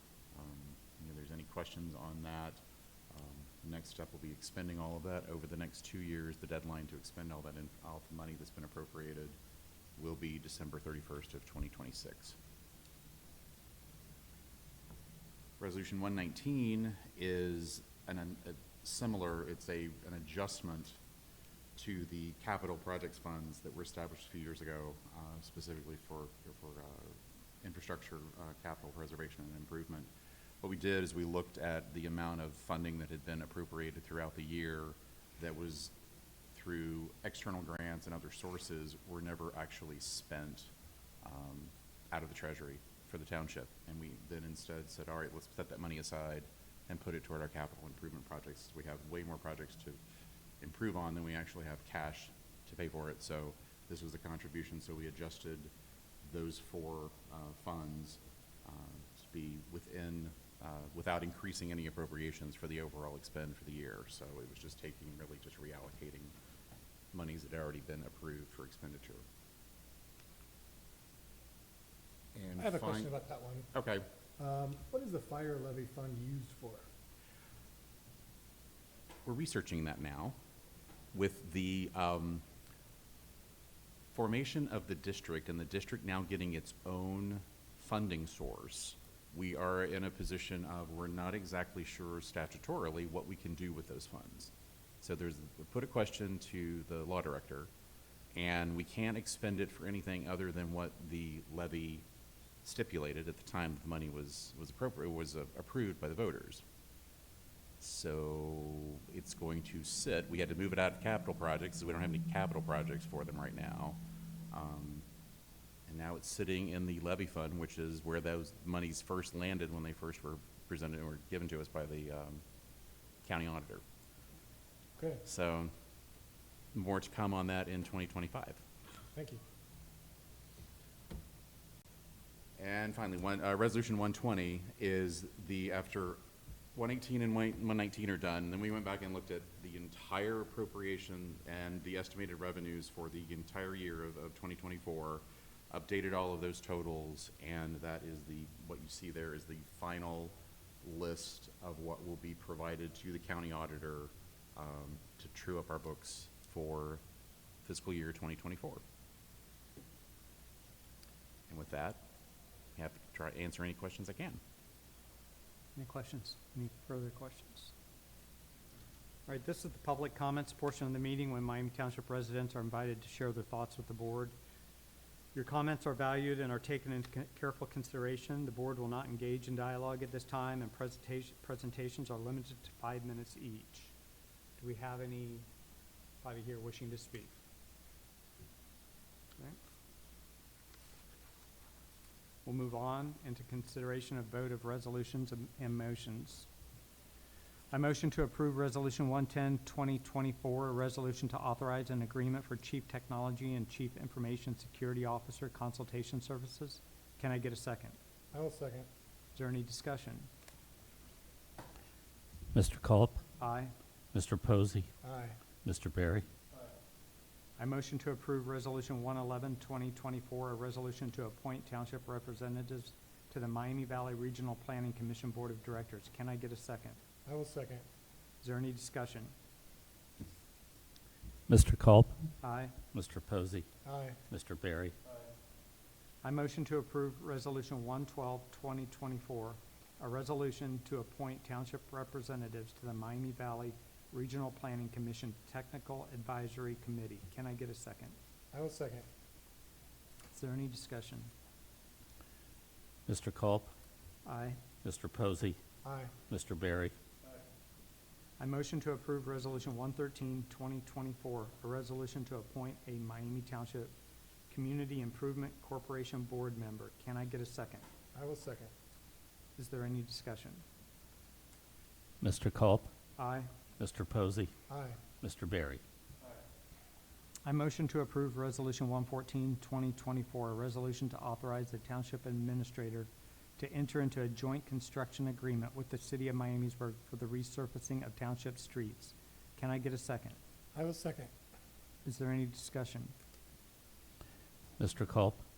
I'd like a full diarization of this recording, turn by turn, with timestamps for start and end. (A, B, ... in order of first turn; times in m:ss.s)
0:00.3-0:09.4 A
0:10.0-0:12.4 A
0:15.6-0:21.0 A
0:21.8-0:30.1 A
0:30.6-0:35.9 A
0:36.5-0:40.7 A
0:41.2-0:50.0 A
0:50.6-0:55.7 A
0:56.2-1:06.3 A
1:07.1-1:09.2 A
1:12.3-1:13.1 A
1:12.6-1:13.7 B
1:13.7-1:14.1 A
1:14.4-1:16.9 B
1:19.2-1:20.4 A
1:21.1-1:22.4 A
1:24.1-1:37.7 A
1:38.3-1:42.0 A
1:42.6-1:46.6 A
1:47.8-1:54.0 A
1:54.5-1:55.0 A
1:55.9-2:02.4 A
2:03.2-2:03.8 A
2:05.0-2:05.2 B
2:05.2-2:05.7 A
2:06.7-2:08.6 A
2:09.1-2:09.4 B
2:12.6-2:16.2 A
2:16.7-2:37.0 A
2:37.6-2:38.8 A
2:41.5-2:42.0 A
2:42.8-2:44.4 A
2:45.8-2:47.7 C
2:49.3-2:54.3 C
2:55.3-3:03.9 C
3:04.6-3:05.4 C
3:06.2-3:07.3 C
3:12.4-3:16.5 C
3:17.7-3:28.0 C
3:28.3-3:28.9 B
3:29.3-3:30.3 C
3:32.5-3:33.2 D
3:33.4-3:33.7 C
3:34.1-3:34.9 D
3:35.0-3:35.4 B
3:35.6-3:36.3 D
3:37.6-3:47.0 C
3:47.2-3:47.8 B
3:48.4-3:49.3 C
3:51.5-3:52.2 D
3:52.4-3:52.8 C
3:52.9-3:53.6 D
3:53.8-3:54.2 B
3:54.3-3:54.9 D
3:56.2-4:08.2 C
4:08.5-4:09.0 B
4:10.3-4:11.3 C
4:13.1-4:13.7 D
4:14.2-4:14.6 C
4:14.8-4:15.6 D
4:15.8-4:16.1 B
4:16.3-4:16.9 D
4:18.4-4:23.9 C
4:24.5-4:27.8 C
4:28.1-4:28.7 B
4:29.6-4:30.6 C
4:32.2-4:32.9 D
4:33.2-4:33.5 C
4:33.8-4:34.5 D
4:34.7-4:35.0 B
4:35.2-4:35.8 D
4:37.4-4:50.4 C
4:50.7-4:51.3 B
4:52.0-4:53.1 C
4:54.8-4:55.4 D